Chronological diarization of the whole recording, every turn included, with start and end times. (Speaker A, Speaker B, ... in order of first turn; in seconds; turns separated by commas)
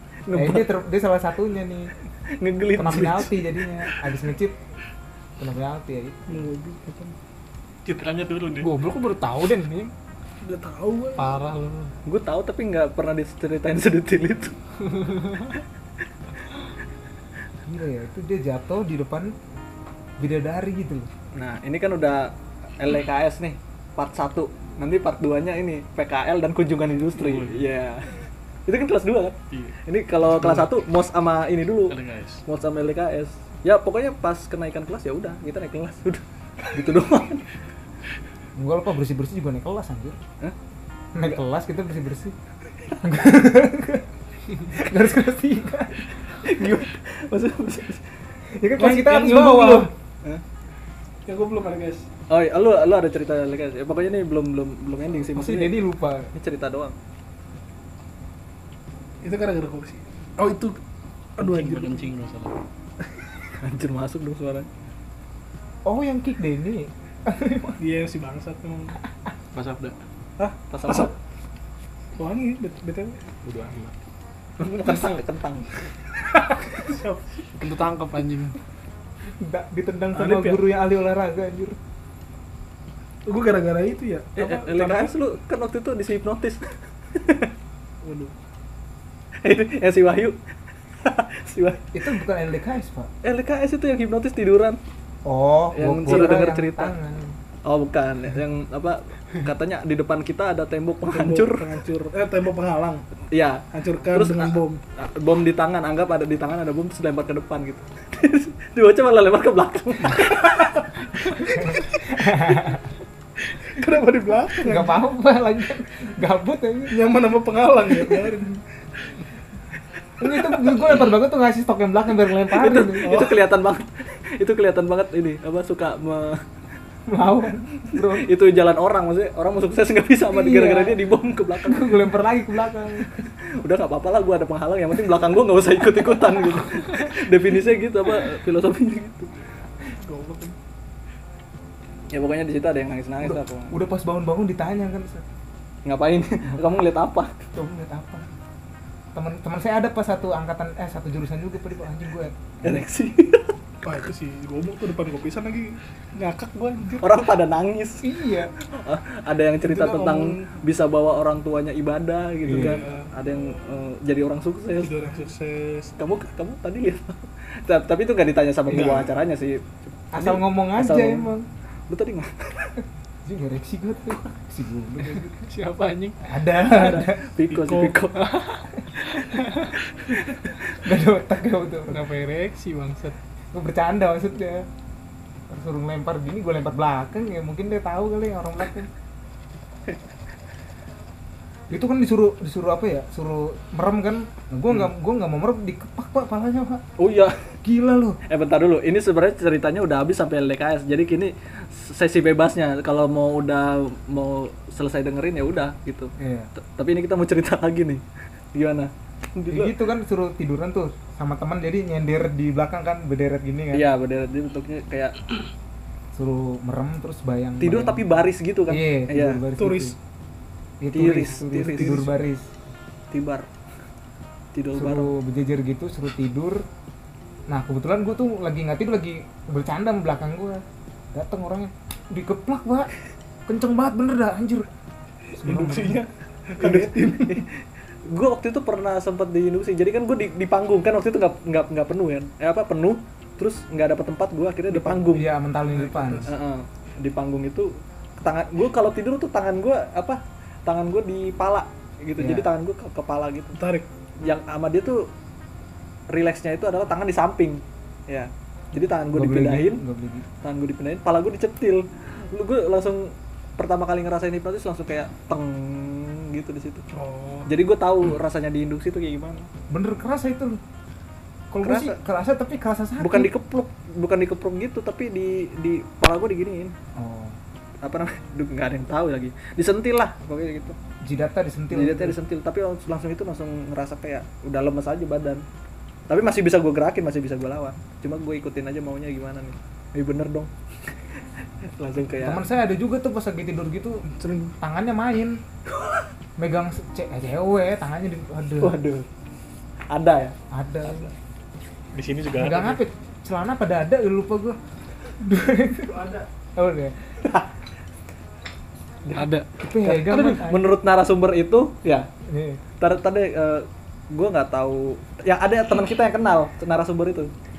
Speaker A: 0.3-0.8, Speaker B: 0.3-1.9, Speaker A: 2.4-3.3, Speaker B: 2.7-4.5, Speaker B: 5.4-6.4, Speaker C: 6.3-7.1, Speaker D: 7.8-8.7, Speaker E: 8.6-9.9, Speaker C: 10.4-11.3, Speaker E: 11.2-11.9, Speaker A: 12.1-14.5, Speaker E: 14.8-15.5, Speaker B: 17.6-19.3, Speaker B: 20.2-21.1, Speaker A: 21.3-37.5, Speaker D: 27.1-27.6, Speaker D: 29.5-29.8, Speaker D: 31.9-32.4, Speaker B: 38.5-40.2, Speaker B: 41.1-42.3, Speaker B: 43.0-44.0, Speaker B: 44.7-46.1, Speaker A: 46.4-48.0, Speaker B: 48.6-49.9, Speaker C: 48.8-49.9, Speaker C: 51.2-52.1, Speaker A: 52.3-55.8, Speaker B: 55.3-56.3, Speaker A: 56.3-57.0, Speaker C: 59.2-60.8, Speaker C: 61.4-62.1, Speaker D: 61.4-62.6, Speaker A: 63.6-64.7, Speaker B: 65.8-67.8, Speaker C: 67.8-69.0, Speaker D: 69.5-70.0, Speaker C: 70.4-71.1, Speaker A: 70.7-71.1, Speaker C: 72.2-73.2, Speaker D: 73.4-73.9, Speaker A: 74.6-75.7, Speaker C: 76.9-77.3, Speaker E: 77.6-78.6, Speaker B: 79.4-81.8, Speaker C: 80.1-80.8, Speaker C: 83.2-85.1, Speaker A: 84.3-87.5, Speaker C: 88.0-88.3, Speaker A: 89.4-90.4, Speaker A: 91.0-91.9, Speaker B: 91.9-93.1, Speaker A: 93.2-94.8, Speaker B: 95.2-97.3, Speaker A: 95.7-96.9, Speaker C: 96.1-96.5, Speaker A: 97.7-101.7, Speaker C: 101.1-103.0, Speaker A: 103.3-110.7, Speaker C: 103.7-104.8, Speaker B: 111.2-112.8, Speaker C: 113.6-115.0, Speaker B: 114.6-117.0, Speaker C: 116.9-118.6, Speaker B: 117.9-118.3, Speaker B: 120.2-123.2, Speaker A: 122.5-126.4, Speaker C: 123.0-123.4, Speaker B: 127.1-128.3, Speaker A: 127.9-132.1, Speaker B: 130.3-131.0, Speaker B: 131.6-133.1, Speaker A: 133.2-139.3, Speaker C: 140.0-140.6, Speaker A: 142.1-143.8, Speaker B: 143.2-145.2, Speaker A: 145.8-147.3, Speaker B: 147.5-148.2, Speaker B: 149.1-152.8, Speaker A: 152.6-153.5, Speaker C: 153.8-157.3, Speaker A: 157.0-158.1, Speaker B: 158.0-158.5, Speaker A: 158.7-164.9, Speaker C: 159.7-160.5, Speaker C: 162.5-163.1, Speaker B: 162.5-162.8, Speaker C: 164.8-166.0, Speaker A: 166.0-171.3, Speaker B: 168.7-169.0, Speaker C: 168.7-169.1, Speaker B: 170.1-171.5, Speaker A: 171.9-172.8, Speaker B: 173.2-175.4, Speaker E: 175.2-176.2, Speaker B: 176.2-177.2, Speaker A: 176.5-178.2, Speaker C: 177.5-178.0, Speaker E: 178.1-179.8, Speaker B: 180.7-182.1, Speaker E: 181.9-183.2, Speaker B: 183.5-184.7, Speaker B: 185.5-188.9, Speaker B: 191.7-196.8, Speaker A: 197.0-197.5, Speaker B: 197.6-198.2, Speaker A: 198.3-208.0, Speaker B: 206.2-206.5, Speaker A: 208.5-209.8, Speaker B: 209.5-213.9, Speaker A: 213.7-215.2, Speaker B: 216.1-219.9, Speaker A: 217.6-219.4, Speaker C: 219.6-220.0, Speaker B: 220.8-222.5, Speaker A: 220.9-222.1, Speaker C: 221.8-222.1, Speaker A: 223.1-223.5, Speaker A: 224.5-225.1, Speaker B: 224.7-226.6, Speaker B: 227.5-230.6, Speaker B: 231.1-232.9, Speaker B: 233.4-234.7, Speaker C: 235.3-237.4, Speaker B: 235.4-236.0, Speaker A: 236.6-245.3, Speaker C: 244.7-245.0, Speaker B: 244.9-246.3, Speaker C: 245.6-246.3, Speaker A: 246.2-253.6, Speaker B: 252.2-252.5, Speaker C: 253.6-253.9, Speaker A: 254.2-255.1, Speaker A: 256.1-259.8, Speaker B: 259.1-260.2, Speaker A: 260.4-266.8, Speaker C: 266.9-267.5, Speaker A: 267.4-269.5, Speaker B: 269.7-270.6, Speaker B: 271.5-273.3, Speaker A: 271.6-272.0, Speaker A: 273.0-276.7, Speaker B: 276.9-277.4, Speaker A: 277.8-280.8, Speaker B: 281.0-282.1, Speaker A: 281.7-285.4, Speaker A: 286.1-290.5, Speaker A: 291.7-292.4, Speaker B: 292.2-294.0, Speaker C: 294.1-294.5, Speaker B: 294.6-295.4, Speaker A: 295.7-296.0, Speaker B: 296.4-298.8, Speaker A: 298.6-299.1, Speaker A: 299.9-300.4, Speaker B: 300.5-301.1, Speaker D: 301.9-302.8, Speaker B: 302.4-304.6, Speaker B: 305.2-306.1, Speaker C: 305.8-306.3, Speaker B: 306.6-307.1, Speaker A: 307.2-307.5, Speaker A: 309.1-312.1, Speaker E: 309.1-309.5, Speaker B: 309.6-310.7, Speaker B: 312.3-312.6, Speaker A: 312.8-317.3